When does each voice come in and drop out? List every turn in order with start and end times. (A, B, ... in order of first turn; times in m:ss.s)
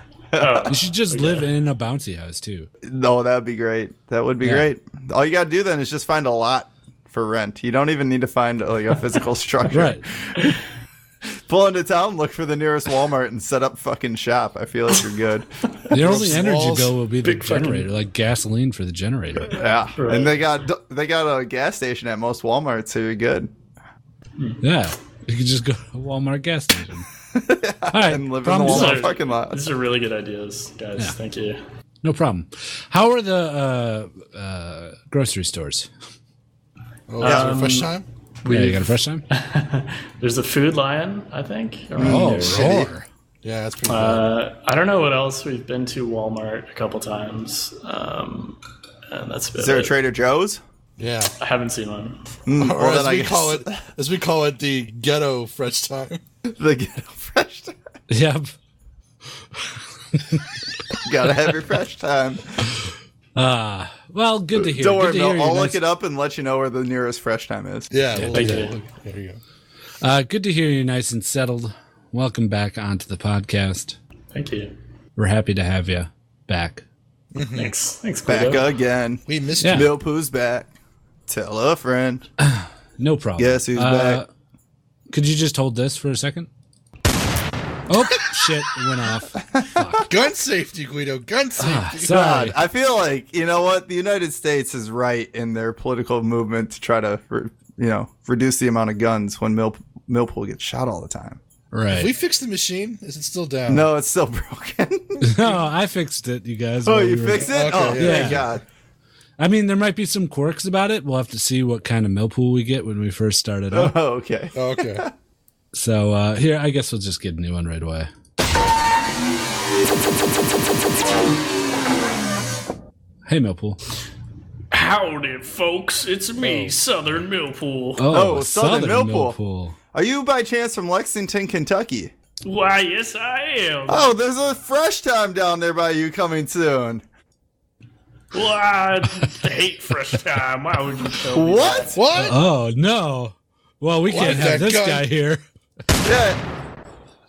0:00.3-0:00.7 A
0:00.4-0:01.5 B
0:00.7-0:02.7 C
0:02.8-0:10.5 A
0:04.4-0:04.7 C
0:09.7-0:10.0 C
0:11.5-0:15.5 A
0:15.9-0:19.6 C
0:16.0-0:17.0 D
0:17.2-0:17.9 B
0:19.5-0:23.5 A
0:20.0-0:20.4 B
0:24.6-0:27.1 C
0:27.3-0:29.6 A
0:27.9-0:29.1 C
0:28.6-0:31.6 B
0:32.0-0:35.9 C
0:37.1-0:38.0 D
0:37.2-0:37.9 B
0:37.2-0:37.5 A
0:38.4-0:42.8 B
0:38.5-0:39.2 C
0:42.0-0:42.9 A
0:42.0-0:43.1 C
0:43.4-0:44.3 D
0:43.9-0:50.0 B
0:49.6-0:50.6 A
0:51.0-0:51.3 D
0:51.4-0:52.2 B
0:52.5-0:53.8 A
0:52.5-0:56.2 D
0:56.5-0:57.7 A
0:58.1-0:58.5 C
1:00.1-1:00.4 C
1:01.0-1:02.7 A
1:03.4-1:05.8 C
1:04.6-1:07.9 A
1:07.9-1:09.4 D
1:08.2-1:08.6 C
1:08.3-1:08.8 B
1:10.0-1:14.0 C
1:14.3-1:14.7 B
1:15.2-1:16.8 C
1:17.3-1:17.7 D
1:17.6-1:18.7 B
1:18.3-1:20.7 A
1:19.3-1:19.9 D
1:19.6-1:19.9 C
1:21.3-1:22.3 A
1:22.4-1:24.3 C
1:23.4-1:24.2 A
1:25.1-1:26.5 C
1:27.9-1:30.1 C
1:29.5-1:30.0 A
1:30.1-1:32.2 D
1:31.6-1:32.6 C
1:32.0-1:41.4 A
1:41.7-1:42.1 C
1:41.9-1:43.9 D
1:43.7-1:45.6 A
1:45.2-1:48.4 C
1:46.8-1:48.6 A
1:47.4-1:48.5 D
1:49.4-1:54.0 C
1:53.7-1:55.1 A
1:54.6-1:55.0 D
1:55.7-1:58.1 C
2:03.3-2:03.8 C
2:04.7-2:08.0 B
2:06.4-2:06.7 C
2:08.0-2:09.8 C
2:08.1-2:09.4 A
2:09.9-2:12.1 A
2:12.4-2:14.1 B
2:13.9-2:17.0 A
2:18.3-2:22.1 B
2:21.3-2:22.0 A
2:21.9-2:22.4 D
2:22.2-2:25.4 C
2:24.1-2:25.1 D
2:26.0-2:26.4 A